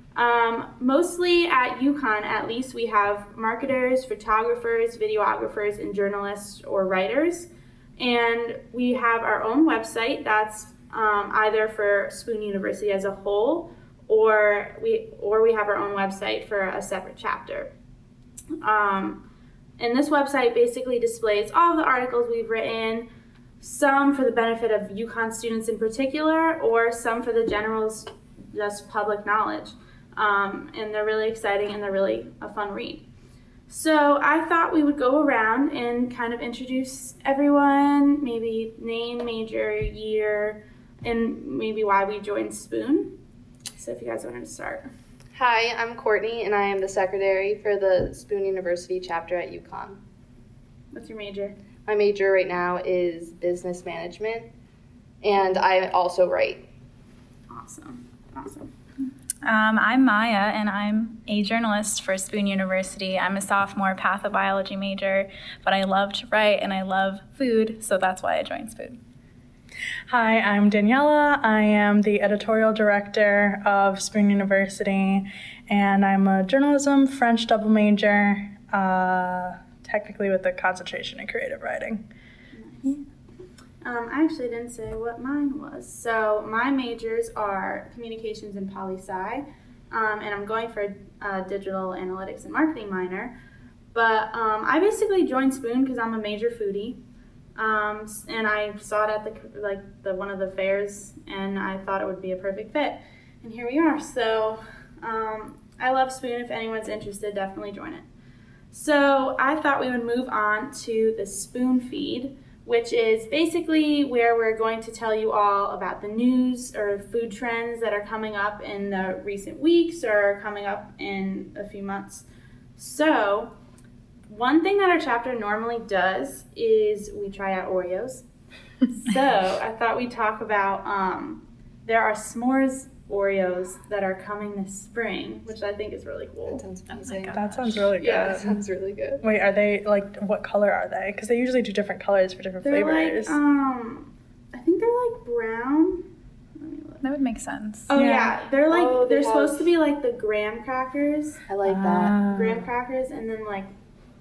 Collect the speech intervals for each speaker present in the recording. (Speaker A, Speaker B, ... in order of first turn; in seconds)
Speaker A: 0.2-17.7, 18.6-19.2, 19.8-23.1, 23.6-33.0, 33.7-43.1, 43.8-44.9, 50.9-51.5, 57.5-58.7, 82.5-83.0, 83.8-93.3, 93.9-97.0, 97.6-108.0, 108.7-122.3, 122.8-123.5, 124.3-128.2, 128.9-136.7, 138.0-138.4, 142.6-147.0, 147.9-151.4, 152.3-153.7
Speaker B: 45.4-50.0, 51.9-54.5, 55.2-56.6, 136.5-137.4, 138.0-139.2, 148.7-149.7, 151.5-152.2
Speaker C: 59.4-69.0, 136.9-137.9, 147.0-147.9
Speaker D: 70.1-82.0, 137.3-138.6, 139.2-143.4, 147.9-148.4, 151.6-152.7